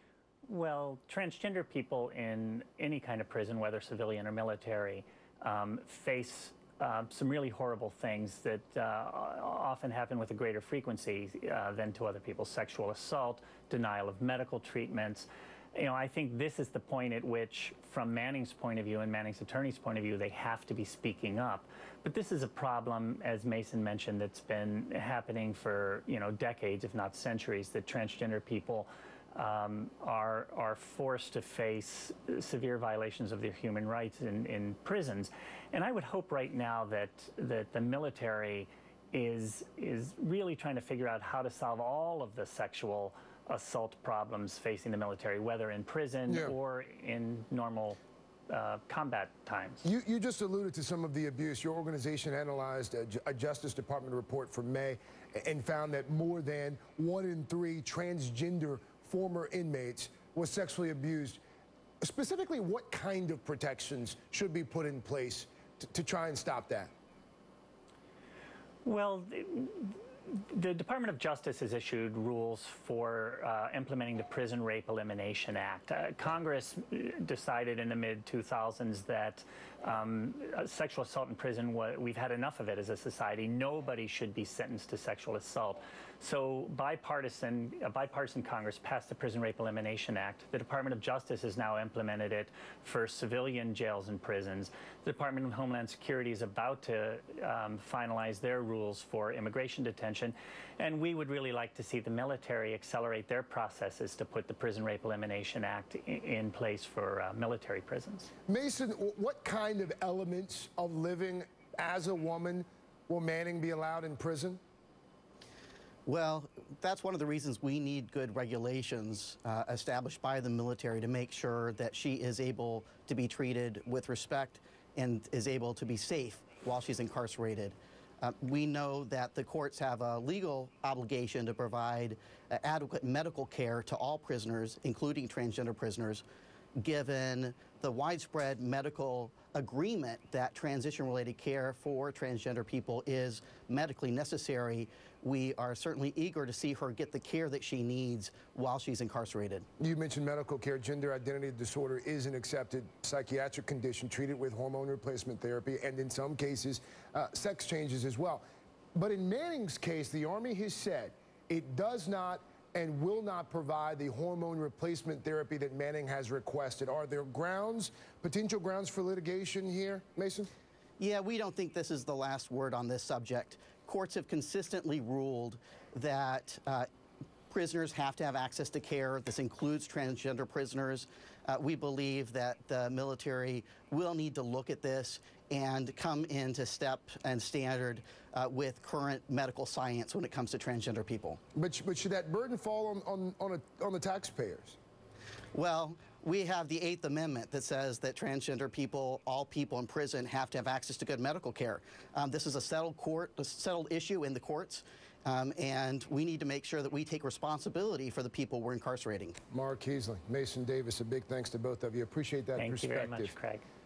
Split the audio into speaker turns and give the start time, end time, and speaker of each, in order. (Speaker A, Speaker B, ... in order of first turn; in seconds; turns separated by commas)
Speaker A: 0.4-48.0, Speaker B: 46.3-46.5, Speaker A: 48.5-49.8, Speaker B: 49.8-61.4, Speaker B: 62.0-66.9, Speaker A: 68.8-108.3, Speaker B: 108.5-114.6, Speaker C: 116.0-136.2, Speaker C: 136.8-149.7, Speaker B: 149.8-158.4, Speaker B: 158.9-170.5, Speaker C: 171.0-176.9, Speaker C: 177.5-191.4, Speaker B: 191.5-194.8, Speaker C: 195.5-209.4, Speaker B: 209.5-213.3, Speaker A: 212.6-213.6